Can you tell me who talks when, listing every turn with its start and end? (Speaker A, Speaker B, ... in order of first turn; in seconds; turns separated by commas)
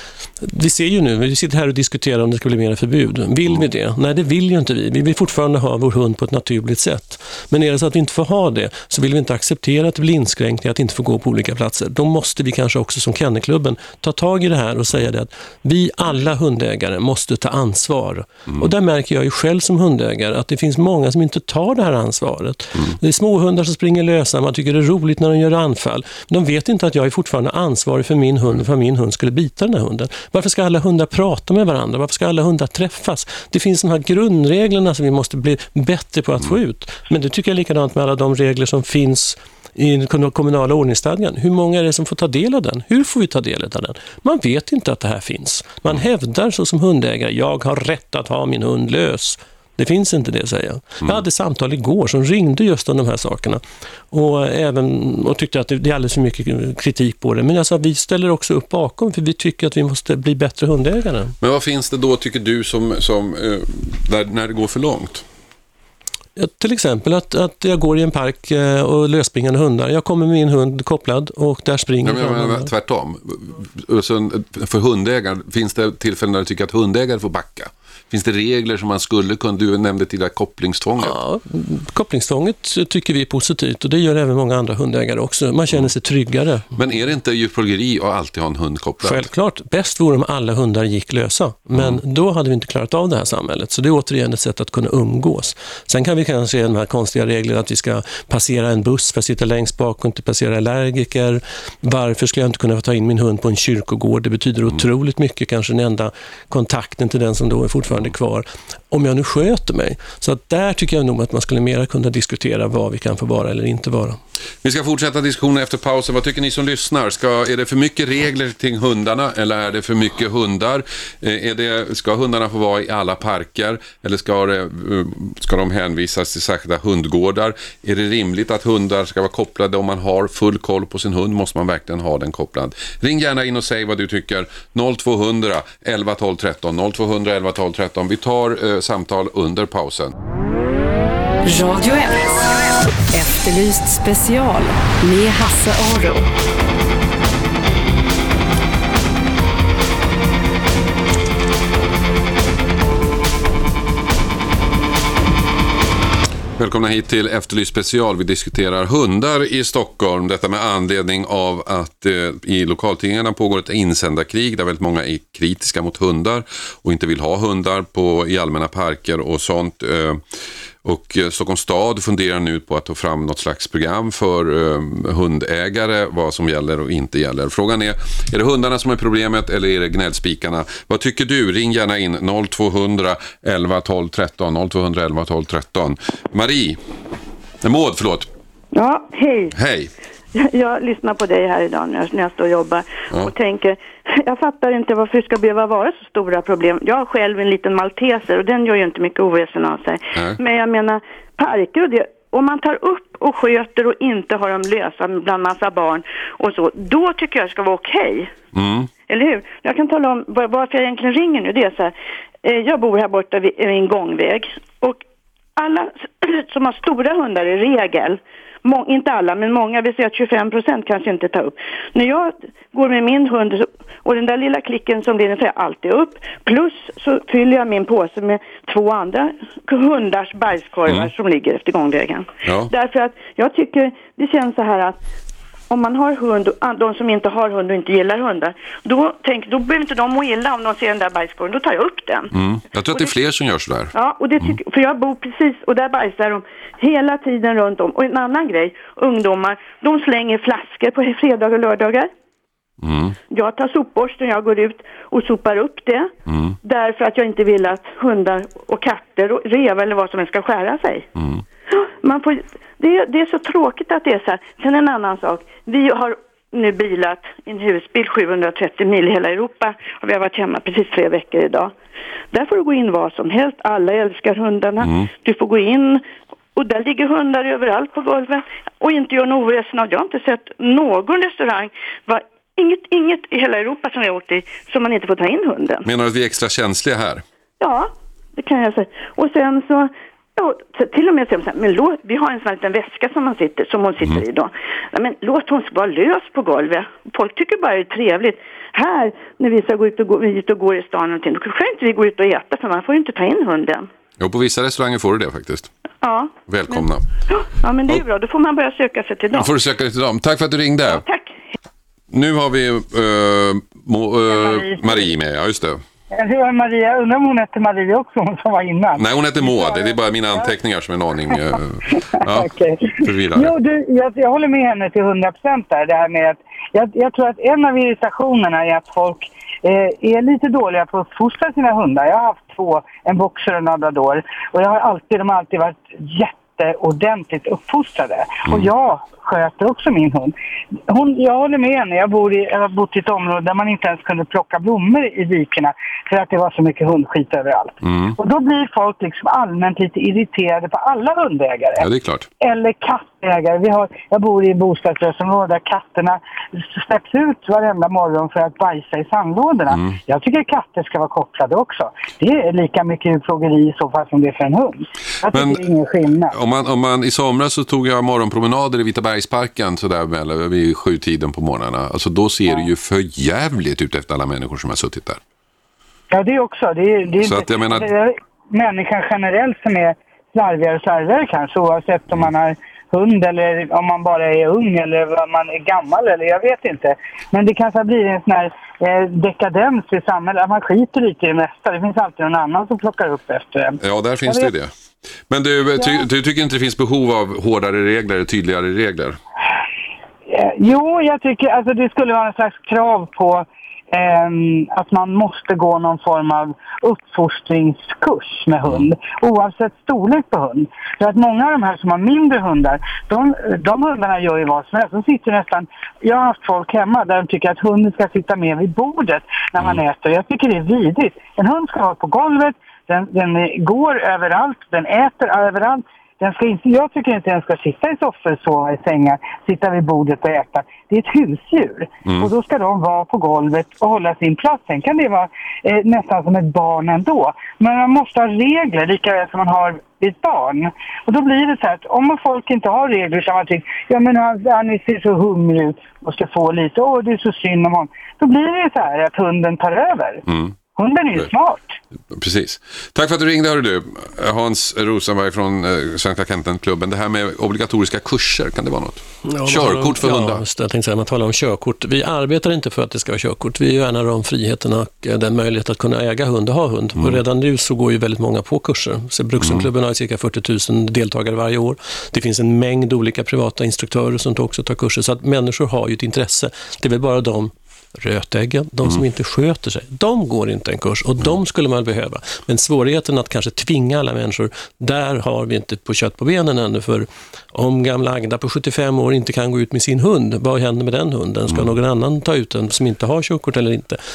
Speaker A: 0.4-61.4, Speaker B: 61.4-65.2, Speaker A: 66.4-72.7, Speaker B: 72.0-81.2, Speaker A: 81.0-86.7, Speaker B: 86.8-89.3, Speaker A: 89.0-114.2, Speaker B: 91.7-92.0, Speaker B: 114.6-140.1, Speaker C: 141.4-142.4, Speaker C: 143.1-146.3, Speaker B: 156.6-170.2, Speaker B: 170.8-186.8, Speaker B: 187.6-188.3, Speaker D: 188.7-189.6, Speaker B: 189.5-189.9, Speaker D: 190.3-208.3, Speaker B: 208.5-208.9, Speaker D: 209.1-215.0, Speaker D: 215.6-235.0, Speaker B: 232.4-232.7, Speaker D: 235.7-242.3, Speaker B: 242.3-243.9, Speaker D: 243.9-252.1, Speaker B: 252.8-253.2, Speaker D: 253.3-256.1, Speaker B: 256.3-256.6, Speaker D: 256.6-261.1, Speaker B: 261.2-261.4, Speaker D: 261.7-271.7, Speaker D: 272.3-276.0, Speaker D: 276.6-285.9, Speaker B: 285.9-287.2, Speaker D: 287.6-303.9, Speaker B: 304.2-305.7, Speaker D: 306.0-309.6, Speaker B: 306.5-307.1, Speaker B: 309.3-311.0, Speaker D: 310.9-311.4, Speaker B: 312.1-315.8, Speaker E: 314.3-315.0, Speaker E: 316.1-320.5, Speaker B: 318.9-323.5, Speaker E: 321.9-340.3, Speaker E: 340.9-351.9, Speaker B: 347.8-348.2, Speaker B: 351.8-352.3, Speaker E: 352.4-366.3, Speaker B: 359.7-360.0, Speaker B: 365.3-365.6, Speaker B: 366.3-375.2, Speaker E: 376.1-394.5, Speaker B: 377.2-377.9, Speaker B: 393.8-394.7, Speaker B: 395.3-399.2, Speaker E: 400.3-450.2, Speaker B: 432.1-432.3, Speaker B: 450.3-450.5, Speaker E: 450.8-451.8, Speaker B: 452.1-460.4, Speaker A: 459.2-494.0, Speaker B: 469.4-469.7